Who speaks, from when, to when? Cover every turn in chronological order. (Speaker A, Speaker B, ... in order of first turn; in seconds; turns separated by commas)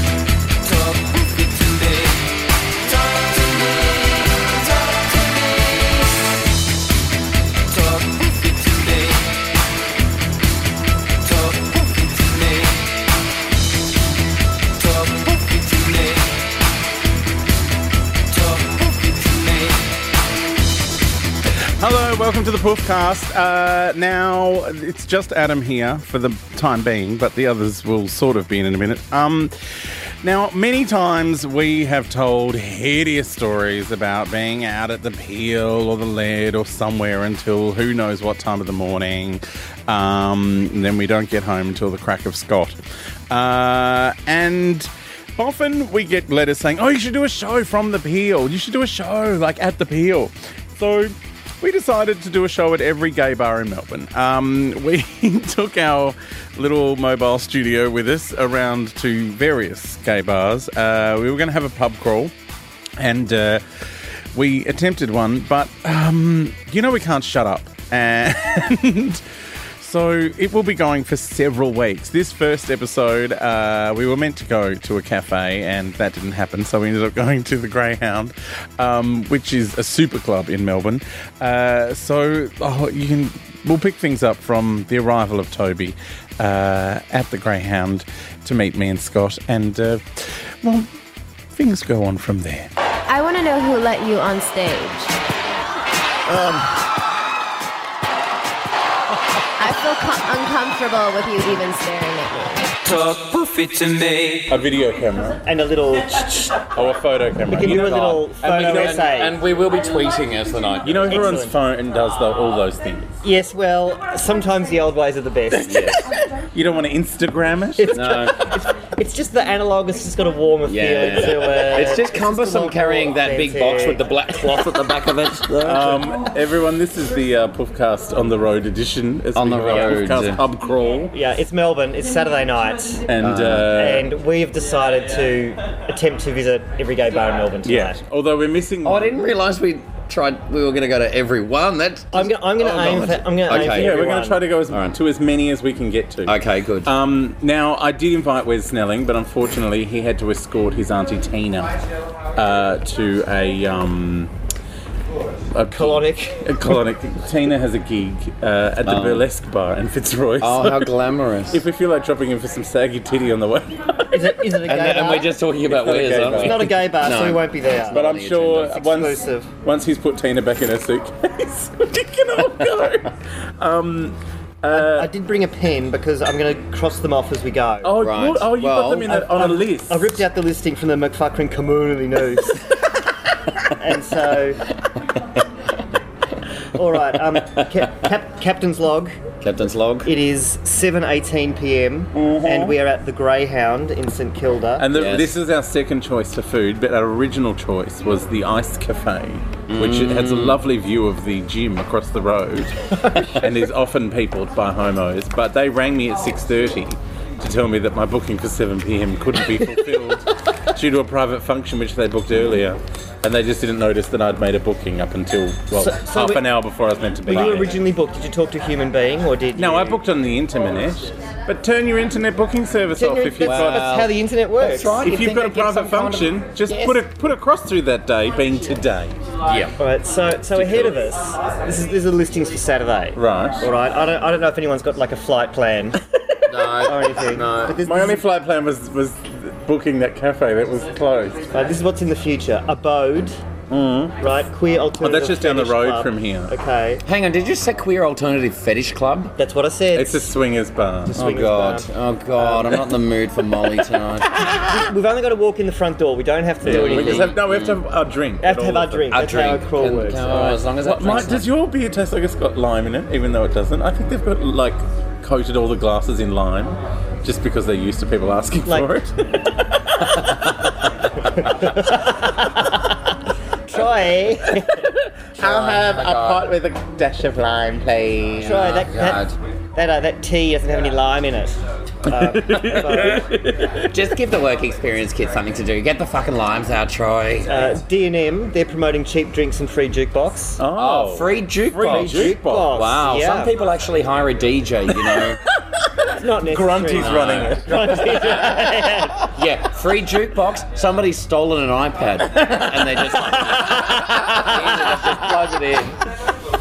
Speaker A: 0.6-6.2, Speaker A: 7.7-9.5, Speaker A: 11.2-13.0, Speaker A: 14.8-16.5, Speaker A: 18.3-19.9, Speaker B: 21.8-29.5, Speaker B: 30.2-42.8, Speaker B: 43.3-62.3, Speaker B: 63.0-69.3, Speaker B: 69.8-90.9, Speaker B: 91.5-92.7, Speaker C: 93.1-95.2, Speaker D: 96.3-96.7, Speaker C: 99.6-102.7, Speaker A: 102.8-104.5, Speaker B: 104.5-105.4, Speaker D: 105.5-106.7, Speaker B: 106.7-109.1, Speaker D: 107.5-109.4, Speaker E: 107.7-111.3, Speaker B: 110.8-113.2, Speaker D: 111.1-111.6, Speaker D: 113.2-116.0, Speaker E: 115.7-116.1, Speaker B: 116.0-118.0, Speaker D: 117.8-124.0, Speaker E: 117.9-118.5, Speaker E: 120.6-126.2, Speaker B: 125.6-131.1, Speaker E: 129.3-130.4, Speaker D: 131.1-133.0, Speaker B: 133.1-134.1, Speaker E: 133.2-133.8, Speaker D: 133.7-138.0, Speaker B: 137.6-139.3, Speaker E: 138.8-142.3, Speaker D: 142.1-144.4, Speaker B: 142.6-151.7, Speaker E: 143.5-144.0, Speaker E: 144.7-145.0, Speaker E: 146.2-146.9, Speaker B: 152.3-154.3, Speaker B: 155.5-160.9, Speaker D: 155.7-156.5, Speaker E: 158.8-159.2, Speaker E: 160.4-161.6, Speaker B: 161.5-164.3, Speaker D: 164.1-165.3, Speaker E: 164.6-168.8, Speaker B: 165.7-166.8, Speaker D: 166.4-168.1, Speaker B: 167.9-175.1, Speaker D: 168.7-169.5, Speaker D: 174.7-177.9, Speaker B: 177.8-180.2, Speaker E: 178.0-179.1, Speaker D: 179.0-182.7, Speaker D: 183.8-184.6, Speaker D: 186.7-189.2, Speaker E: 189.4-190.1, Speaker D: 190.0-194.8, Speaker B: 192.1-192.8, Speaker B: 194.8-217.8, Speaker E: 194.9-195.3, Speaker E: 199.7-200.6, Speaker D: 215.8-216.5, Speaker D: 217.2-220.0, Speaker B: 219.5-223.9, Speaker D: 222.9-224.9, Speaker E: 223.4-227.0, Speaker B: 225.0-229.2, Speaker E: 229.4-229.7, Speaker D: 229.8-236.0, Speaker B: 230.5-231.1, Speaker B: 233.2-233.7, Speaker E: 236.5-237.8, Speaker D: 236.8-238.2, Speaker B: 237.8-241.5, Speaker D: 241.5-243.4, Speaker B: 243.7-244.2, Speaker D: 244.2-247.0, Speaker B: 245.0-246.5, Speaker E: 247.1-249.3, Speaker D: 249.4-250.3, Speaker B: 249.9-251.3, Speaker D: 251.1-252.8, Speaker E: 251.1-254.5, Speaker B: 254.4-254.7, Speaker D: 254.7-257.4, Speaker B: 256.6-259.1, Speaker E: 256.6-257.8, Speaker D: 258.4-261.2, Speaker E: 259.1-261.5, Speaker B: 260.8-270.3, Speaker D: 268.7-268.9, Speaker D: 271.4-273.0, Speaker D: 273.7-274.9, Speaker B: 274.8-278.7, Speaker E: 275.4-276.5, Speaker E: 278.4-279.3, Speaker D: 278.4-283.2, Speaker B: 282.1-283.9, Speaker E: 282.6-283.0, Speaker E: 283.7-287.5, Speaker D: 287.5-290.6, Speaker B: 290.6-292.8, Speaker E: 290.7-295.4, Speaker D: 291.8-293.5, Speaker B: 295.1-298.8, Speaker D: 296.1-299.3, Speaker E: 297.0-297.6, Speaker E: 299.3-305.9, Speaker D: 303.5-304.6